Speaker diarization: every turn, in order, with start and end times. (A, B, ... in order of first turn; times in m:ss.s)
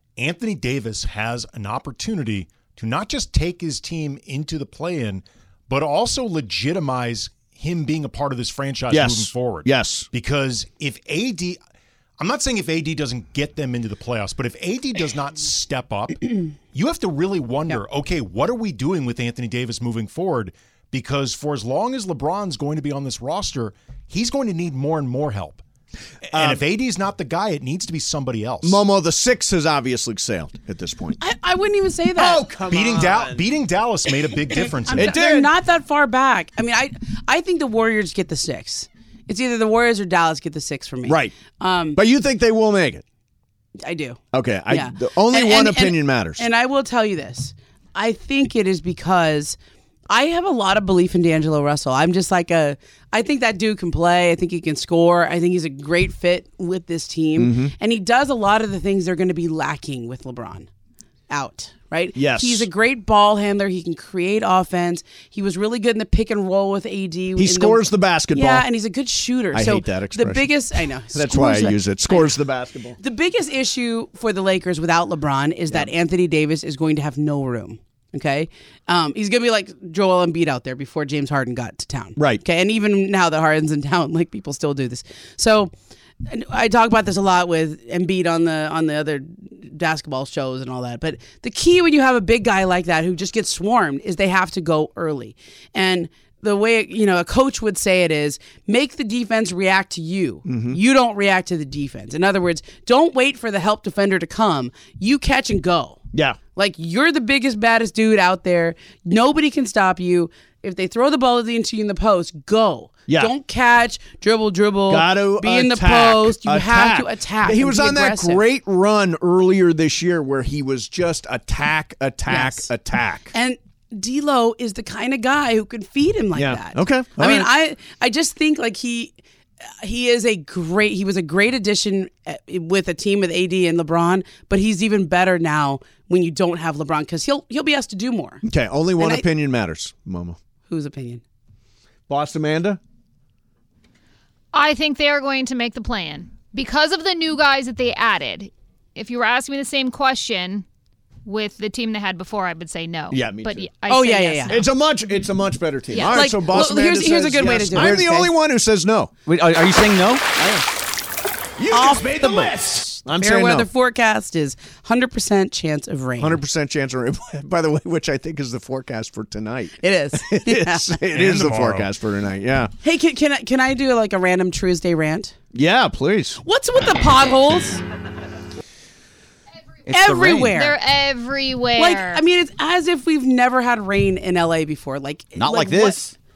0:00.2-0:11.6 A
0:08.9-0:10.1 B
0:12.2-0:25.6 A
0:26.3-0:28.8 A
0:26.3-0:26.6 B
0:28.6-0:31.2 B
0:31.2-0:32.5 C
0:32.1-0:33.4 B
0:32.6-0:35.1 A
0:34.9-0:42.0 C
0:34.9-0:35.5 B
0:41.0-0:41.4 B
0:42.0-0:43.0 B
0:43.8-0:49.6 C
0:44.3-0:46.5 B
0:50.1-1:00.7 C
0:57.4-0:57.7 B
1:01.3-1:12.4 C
1:02.1-1:02.7 B
1:07.4-1:08.7 B
1:09.5-1:10.5 B
1:11.1-1:13.0 B
1:13.0-1:25.7 C
1:22.2-1:22.4 B
1:26.2-1:58.4 C
1:40.4-1:40.8 B
1:46.1-1:46.4 B
1:53.1-1:53.3 B
1:54.9-2:03.3 B
2:02.3-2:02.7 C
2:03.3-2:09.1 C
2:06.3-2:07.5 B
2:09.8-2:18.4 C
2:18.4-2:20.4 B
2:19.0-2:19.2 C
2:20.7-2:21.2 C
2:22.1-2:22.8 B
2:24.5-2:30.6 D
2:31.2-2:34.6 D
2:33.1-2:33.7 B
2:33.9-2:34.7 C
2:34.5-2:39.1 B
2:35.9-2:36.3 D
2:36.0-2:38.3 C
2:39.3-2:40.5 E
2:41.6-2:43.7 B
2:41.7-2:46.4 C
2:46.2-2:52.7 B
2:49.8-2:50.9 C
2:51.1-2:51.9 A
2:52.8-2:55.3 C
2:55.5-2:56.4 B
2:56.4-2:57.8 C
2:59.9-3:00.5 E
2:59.9-3:00.8 C
3:00.5-3:02.2 D
3:01.8-3:06.0 C
3:05.4-3:06.1 E